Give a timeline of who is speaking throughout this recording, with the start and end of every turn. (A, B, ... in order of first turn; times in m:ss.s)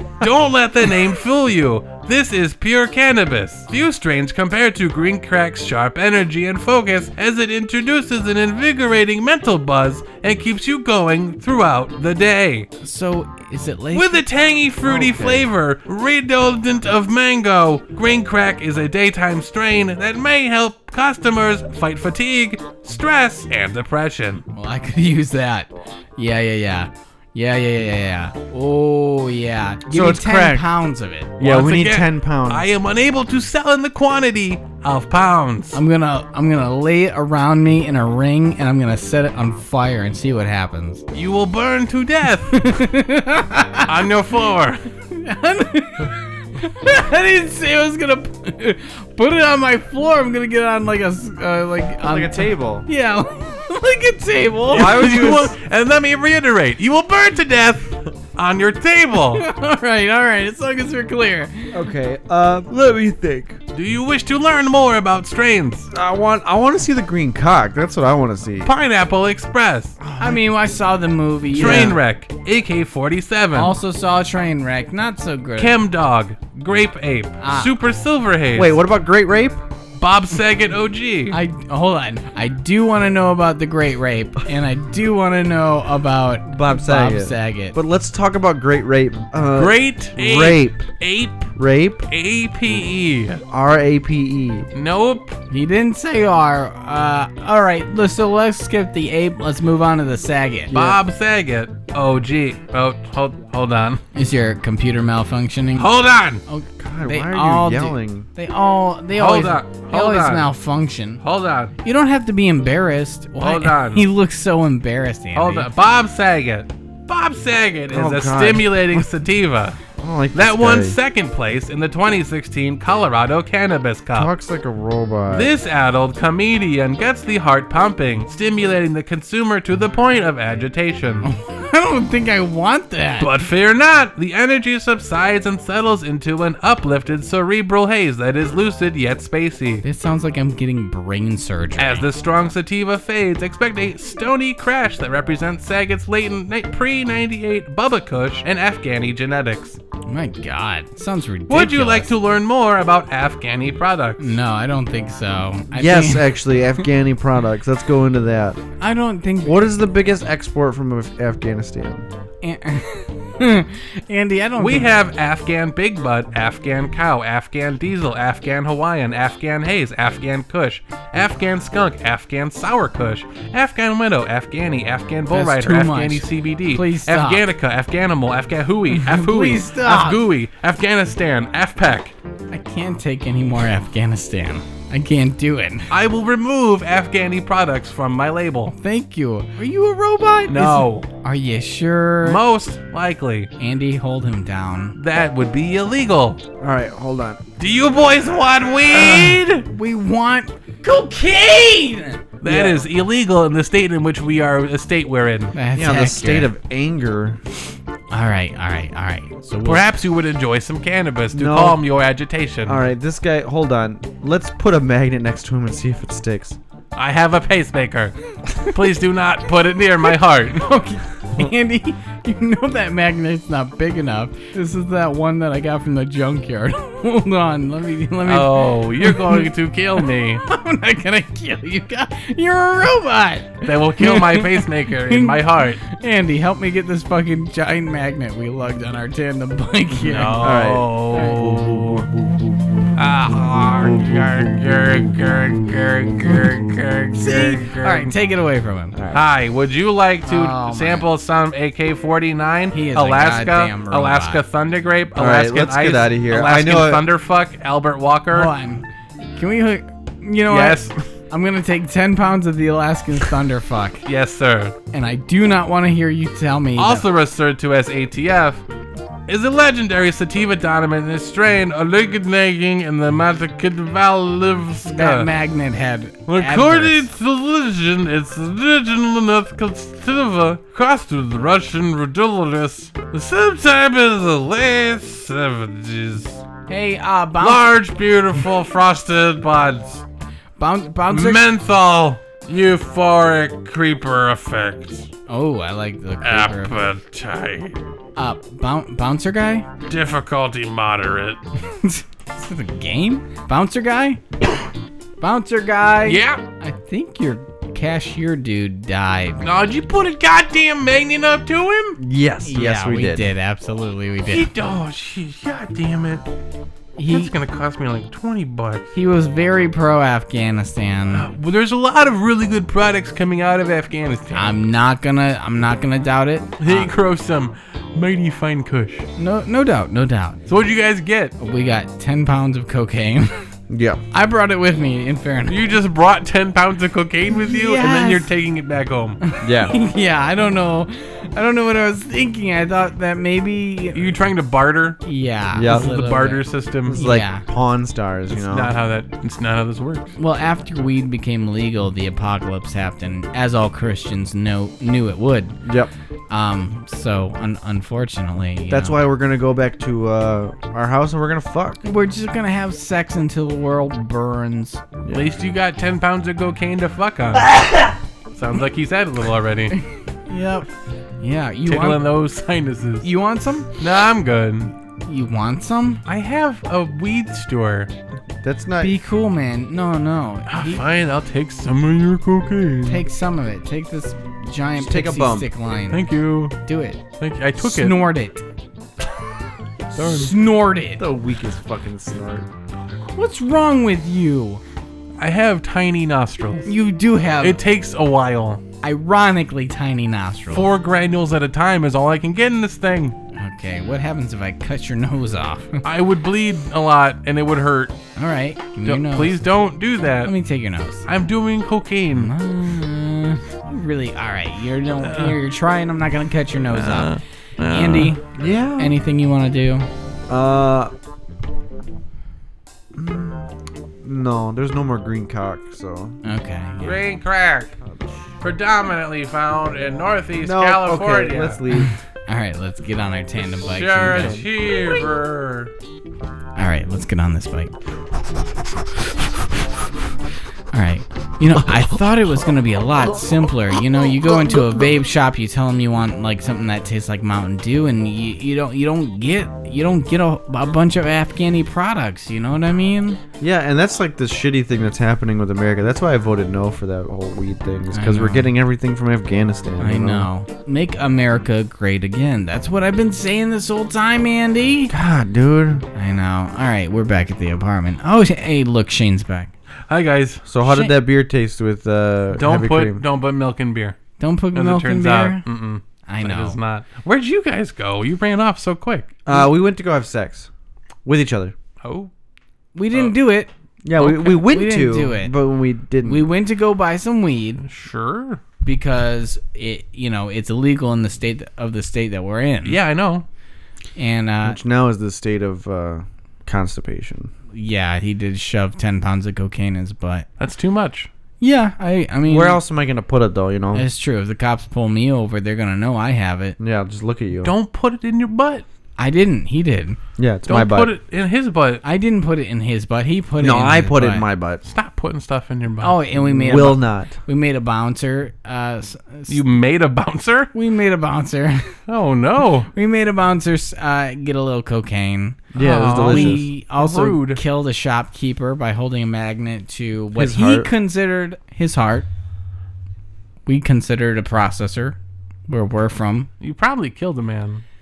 0:00.2-0:12.7 A
0:12.8-0:14.2 B
0:13.9-0:24.4 A
0:14.8-0:15.5 C
0:24.5-0:31.3 B
0:29.9-0:30.7 C
0:31.4-0:32.7 C
0:31.4-0:35.8 A
0:35.7-0:41.0 B
0:41.1-0:42.6 A
0:42.5-0:44.0 B
0:43.8-0:44.8 A
0:45.1-0:55.4 B
0:52.1-0:52.9 C
0:54.7-0:55.6 C
0:54.7-0:59.4 A
0:59.3-1:01.8 B
1:01.7-1:03.6 C
1:03.7-1:05.9 A
1:05.9-1:08.7 C
1:08.6-1:10.0 A
1:10.0-1:10.4 C
1:10.2-1:12.0 B
1:11.5-1:13.8 A
1:11.6-1:12.0 C
1:13.6-1:15.8 B
1:15.6-1:18.8 A
1:17.4-1:17.7 B
1:18.6-1:19.6 C
1:20.0-1:21.4 A
1:21.3-1:27.8 B
1:26.5-1:30.9 C
1:29.6-1:31.5 A
1:31.6-1:32.1 C
1:32.1-1:33.4 A
1:33.5-1:34.7 C
1:34.7-1:35.4 A
1:35.5-1:40.7 B
1:40.7-1:41.0 C
1:40.7-1:44.0 A
1:44.1-1:45.9 B
1:45.8-1:46.4 A
1:46.5-1:51.2 B
1:46.8-1:48.3 C
1:49.2-1:50.5 A
1:51.2-1:51.7 A
1:51.8-1:55.7 B
1:53.4-1:54.1 A
1:55.4-1:59.8 A
1:57.9-1:59.1 C
2:00.0-2:01.0 C
2:00.3-2:04.3 A
2:04.1-2:05.5 C
2:05.3-2:11.3 A
2:11.2-2:13.3 B
2:13.2-2:19.8 A
2:19.8-2:22.1 B
2:21.8-2:29.8 A
2:30.1-2:32.1 B
2:31.5-2:34.4 A
2:34.2-2:36.3 B
2:35.7-2:38.6 C
2:38.8-2:39.7 B
2:39.4-2:42.1 C
2:42.4-2:44.9 B
2:44.6-3:02.2 A
2:55.3-2:57.4 B
2:58.9-3:00.3 B
3:02.5-3:05.9 B
3:05.9-3:08.7 A
3:08.7-3:12.4 B
3:10.5-3:11.1 A
3:12.2-3:13.5 A
3:13.6-3:15.0 B
3:15.0-3:16.4 A
3:16.6-3:17.5 C
3:17.6-3:19.7 A
3:18.9-3:22.3 B
3:22.4-3:25.6 A
3:22.4-3:22.9 C
3:25.5-3:26.5 B
3:25.8-3:27.4 C
3:28.1-3:29.9 B
3:29.6-3:32.8 A
3:31.3-3:31.8 C
3:32.7-3:36.6 C
3:37.0-3:40.7 A
3:40.6-3:49.5 B
3:48.3-3:50.4 A
3:50.4-4:01.4 B
3:53.6-3:55.8 A
4:00.0-4:02.1 A
4:00.4-4:02.1 C
4:03.0-4:08.1 A
4:07.2-4:09.0 B
4:08.9-4:09.2 C
4:09.1-4:18.5 A
4:10.2-4:11.1 B
4:12.7-4:14.4 B
4:15.2-4:17.1 C
4:18.3-4:24.0 B
4:20.5-4:21.0 A
4:24.1-4:24.8 A
4:24.9-4:27.1 B
4:26.8-4:28.6 A
4:29.3-4:35.3 A
4:34.9-4:37.1 B
4:36.3-4:46.4 A
4:46.7-4:47.7 B
4:47.4-4:50.0 A
4:50.6-4:51.4 B
4:51.1-4:55.1 A
4:55.3-4:56.8 B
4:56.2-4:57.8 A
4:58.2-4:59.7 B
4:59.9-5:01.4 A
5:01.7-5:04.2 B
5:05.2-5:09.4 B
5:06.0-5:06.4 A
5:09.4-5:12.0 A
5:12.0-5:13.3 C
5:12.4-5:14.5 B
5:14.3-5:16.2 A
5:17.0-5:17.3 B
5:17.1-5:18.9 A
5:18.9-5:21.3 B
5:21.1-5:24.5 A
5:24.3-5:26.9 B
5:26.6-5:29.1 A
5:29.2-5:30.4 B
5:30.5-5:31.4 A
5:31.4-5:33.4 B
5:33.7-5:34.0 C
5:34.1-5:35.6 B
5:35.5-5:39.2 A
5:37.3-5:38.3 B
5:39.2-5:44.3 B
5:39.4-5:39.7 C
5:43.9-5:45.0 A
5:45.0-5:47.4 B
5:45.5-5:46.0 C
5:45.6-5:47.0 A
5:46.9-5:48.7 C
5:48.3-5:50.2 A
5:50.2-5:55.6 B
5:55.6-5:55.9 C
5:56.3-5:59.0 B
5:58.7-6:01.8 C
6:01.8-6:04.8 B
6:05.1-6:07.6 A
6:08.3-6:09.8 A
6:09.7-6:10.7 B
6:11.2-6:12.1 B
6:11.7-6:13.1 A
6:13.0-6:13.7 B
6:13.8-6:14.7 A
6:15.1-6:16.0 B
6:16.1-6:17.9 A
6:18.4-6:19.0 C
6:18.8-6:20.8 B
6:20.5-6:23.0 A
6:22.9-6:26.1 B
6:24.8-6:25.5 C
6:25.9-6:26.6 A
6:26.6-6:27.0 B
6:27.2-6:28.0 A
6:27.6-6:28.4 B
6:30.0-6:30.3 A
6:30.0-6:31.0 B
6:31.0-6:32.5 C
6:33.1-6:34.6 B
6:35.2-6:36.7 A
6:36.7-6:37.6 B
6:37.4-6:38.6 A
6:38.8-6:40.7 B
6:40.5-6:43.2 A
6:43.3-6:45.8 B
6:45.8-6:48.0 A
6:48.2-6:49.4 B
6:48.8-6:50.3 A
6:50.2-6:51.1 B
6:51.1-6:52.3 A
6:52.1-6:58.2 B
6:55.0-6:55.4 A
6:56.7-6:58.2 A
6:58.4-6:59.0 C
6:58.8-6:59.9 B
7:00.3-7:00.9 C
7:03.0-7:06.2 C
7:06.2-7:07.0 B
7:06.8-7:07.8 A
7:07.8-7:08.3 C
7:08.4-7:11.6 A
7:10.4-7:12.0 C
7:12.3-7:14.4 B
7:13.5-7:15.7 A
7:14.1-7:14.4 C
7:16.6-7:17.7 B
7:20.7-7:33.2 B
7:33.4-7:40.3 C
7:37.9-7:38.5 B
7:39.8-7:44.9 B
7:44.9-7:45.9 C
7:46.0-7:49.5 B
7:49.9-7:50.4 A
7:50.5-7:53.0 C
7:50.6-7:50.9 B
7:52.4-7:54.0 A
7:54.2-7:55.4 B
7:54.6-7:59.2 A
7:56.1-7:56.6 B
7:59.3-8:00.5 C
8:01.0-8:01.6 C
8:01.8-8:02.1 A
8:02.8-8:05.3 B
8:02.9-8:03.2 A
8:03.8-8:06.3 C
8:06.0-8:07.6 B
8:07.6-8:08.4 A
8:08.6-8:12.8 B
8:12.6-8:13.3 A
8:14.0-8:14.6 B
8:14.4-8:17.3 C
8:17.5-8:20.3 B
8:20.4-8:21.1 A
8:21.4-8:22.6 B
8:22.3-8:23.9 C
8:23.7-8:26.6 B
8:26.6-8:27.5 C
8:27.4-8:28.6 A
8:29.0-8:30.0 B
8:30.2-8:31.0 C
8:30.5-8:31.8 A
8:31.8-8:34.3 B
8:33.4-8:34.6 C
8:34.7-8:36.0 A
8:35.8-8:39.4 B
8:36.2-8:37.2 C
8:39.3-8:40.5 A
8:40.5-8:41.8 B
8:41.9-8:42.7 A
8:42.7-8:52.1 B
8:45.5-8:46.5 C
8:45.6-8:47.4 A
8:50.2-8:50.7 C
8:53.5-8:55.0 B
8:55.5-8:56.3 B
8:56.4-8:57.6 A